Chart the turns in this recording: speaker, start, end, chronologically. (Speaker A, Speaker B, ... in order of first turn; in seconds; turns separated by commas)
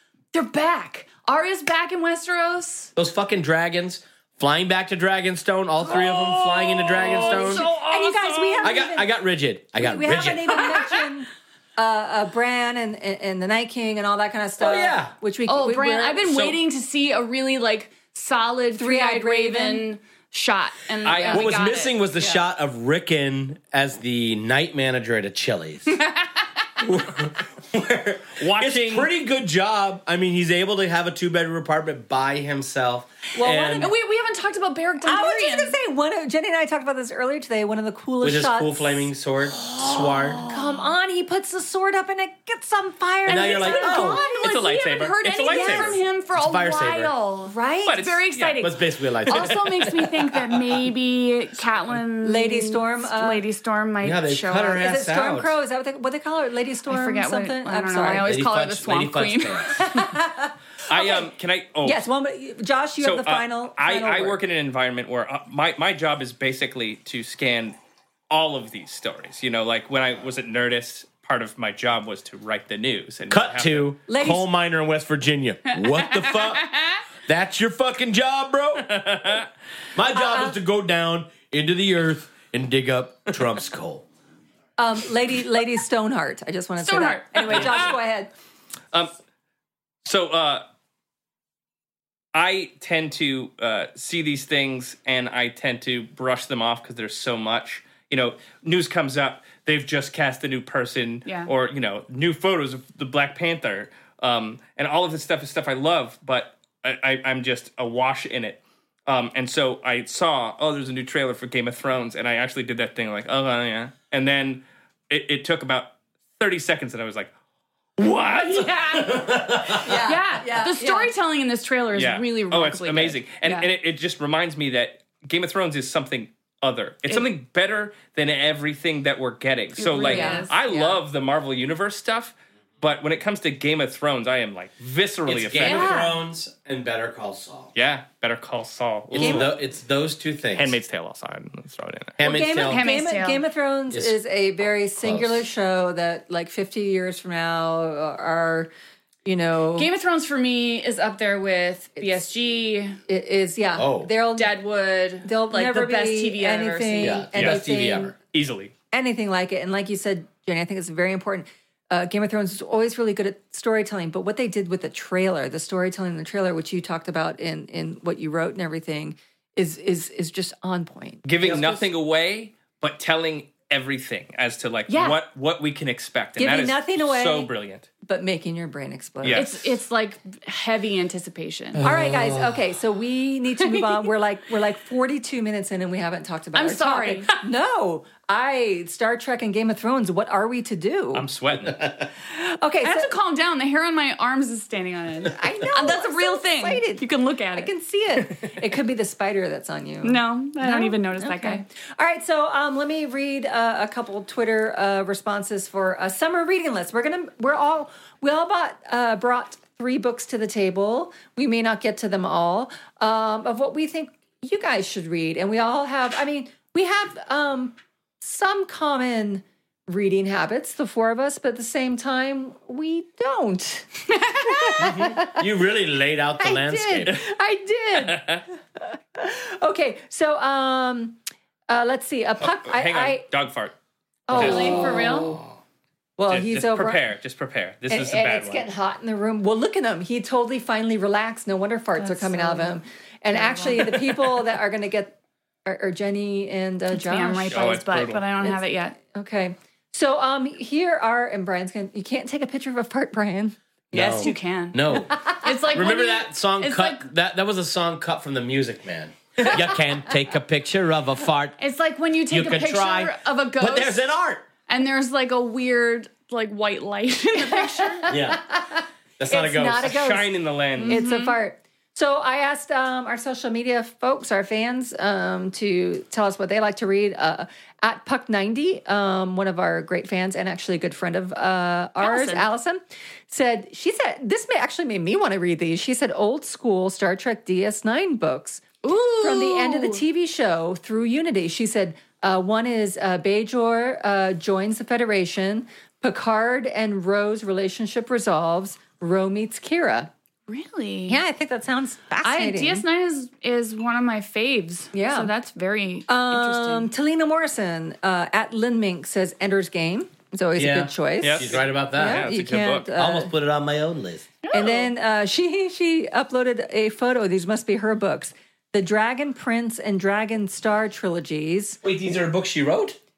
Speaker A: 0.3-2.9, Speaker B: 3.0-7.7, Speaker C: 5.8-8.7, Speaker D: 7.2-9.1, Speaker B: 8.6-10.7, Speaker D: 9.8-16.3, Speaker B: 14.6-15.1, Speaker A: 15.4-22.0, Speaker C: 16.2-16.6, Speaker D: 18.8-19.9, Speaker C: 21.0-21.5, Speaker B: 21.2-26.0, Speaker A: 25.9-26.5, Speaker B: 26.8-33.9, Speaker C: 28.4-29.1, Speaker D: 33.3-33.9, Speaker A: 33.8-35.7, Speaker D: 35.0-39.1, Speaker B: 38.2-40.4, Speaker A: 39.8-40.6, Speaker D: 40.5-44.3, Speaker B: 43.3-44.2, Speaker A: 43.3-54.8, Speaker C: 44.1-46.0, Speaker D: 45.5-46.0, Speaker B: 46.3-47.1, Speaker D: 47.5-48.0, Speaker C: 47.9-48.7, Speaker B: 48.6-49.6, Speaker C: 49.2-50.9, Speaker D: 52.2-53.4, Speaker B: 54.0-55.5, Speaker D: 54.8-58.4, Speaker A: 56.9-59.8, Speaker B: 58.0-59.9, Speaker D: 59.7-61.3, Speaker C: 60.9-62.0, Speaker D: 61.8-64.4, Speaker C: 63.0-67.8, Speaker C: 68.3-73.9, Speaker B: 73.3-79.0, Speaker D: 74.1-74.5, Speaker A: 76.1-77.0, Speaker C: 78.8-79.5, Speaker B: 79.9-84.0, Speaker D: 80.1-80.5, Speaker D: 84.8-88.3, Speaker A: 86.8-87.9, Speaker C: 87.5-87.9, Speaker C: 90.0-90.6, Speaker C: 92.3-117.3, Speaker C: 118.0-119.2, Speaker A: 118.5-119.2, Speaker B: 119.1-120.0, Speaker D: 119.7-121.1, Speaker A: 119.9-123.7, Speaker C: 121.9-135.9, Speaker A: 129.8-130.9, Speaker D: 130.0-130.5, Speaker B: 135.3-137.7, Speaker A: 135.6-136.1, Speaker C: 137.7-139.5, Speaker B: 139.1-140.8, Speaker D: 139.1-139.5, Speaker C: 140.6-142.2, Speaker B: 142.2-142.8, Speaker D: 142.2-148.7, Speaker A: 142.6-143.4, Speaker B: 145.0-145.5, Speaker D: 149.2-149.9, Speaker A: 149.8-153.0, Speaker D: 153.1-154.5, Speaker B: 153.8-154.1, Speaker A: 154.3-157.2, Speaker D: 155.2-158.1, Speaker B: 157.0-158.1, Speaker C: 157.3-157.6, Speaker C: 158.3-158.7, Speaker D: 158.9-171.8, Speaker C: 171.2-177.9, Speaker A: 174.9-175.2, Speaker D: 176.4-177.5, Speaker D: 178.0-179.5, Speaker C: 179.2-179.8, Speaker A: 179.3-181.8, Speaker B: 181.7-182.6, Speaker D: 181.8-191.3, Speaker A: 186.5-187.3, Speaker C: 191.1-191.8, Speaker B: 191.7-192.1, Speaker D: 192.3-193.1, Speaker A: 192.8-197.7, Speaker D: 195.3-225.4, Speaker A: 200.0-201.6, Speaker A: 224.3-224.8, Speaker B: 224.8-227.2, Speaker D: 226.4-231.2, Speaker C: 227.9-228.4, Speaker D: 231.7-233.2, Speaker C: 232.4-233.7, Speaker D: 234.3-235.4, Speaker A: 234.3-235.3, Speaker B: 234.3-235.6, Speaker C: 234.3-234.9, Speaker D: 236.2-237.0, Speaker C: 236.3-238.7, Speaker D: 237.9-247.7, Speaker A: 242.0-242.8, Speaker A: 243.3-244.0, Speaker A: 246.9-248.9, Speaker C: 247.5-248.2, Speaker D: 248.4-253.6, Speaker B: 253.9-261.6, Speaker A: 253.9-257.0, Speaker A: 261.6-264.0, Speaker B: 262.3-264.4, Speaker A: 264.7-268.1, Speaker D: 267.4-270.3, Speaker B: 268.1-268.4, Speaker B: 269.2-270.0, Speaker C: 269.8-271.0, Speaker A: 270.8-271.4, Speaker D: 270.9-288.6, Speaker A: 282.0-282.5, Speaker A: 288.8-290.0, Speaker D: 289.2-300.1, Speaker A: 300.5-301.2, Speaker D: 301.1-302.8, Speaker A: 302.2-306.9, Speaker D: 304.9-305.3, Speaker D: 306.1-313.3, Speaker B: 310.6-312.3, Speaker C: 311.2-312.9, Speaker B: 312.9-314.3, Speaker A: 314.4-314.9, Speaker D: 314.5-321.8, Speaker B: 321.8-323.0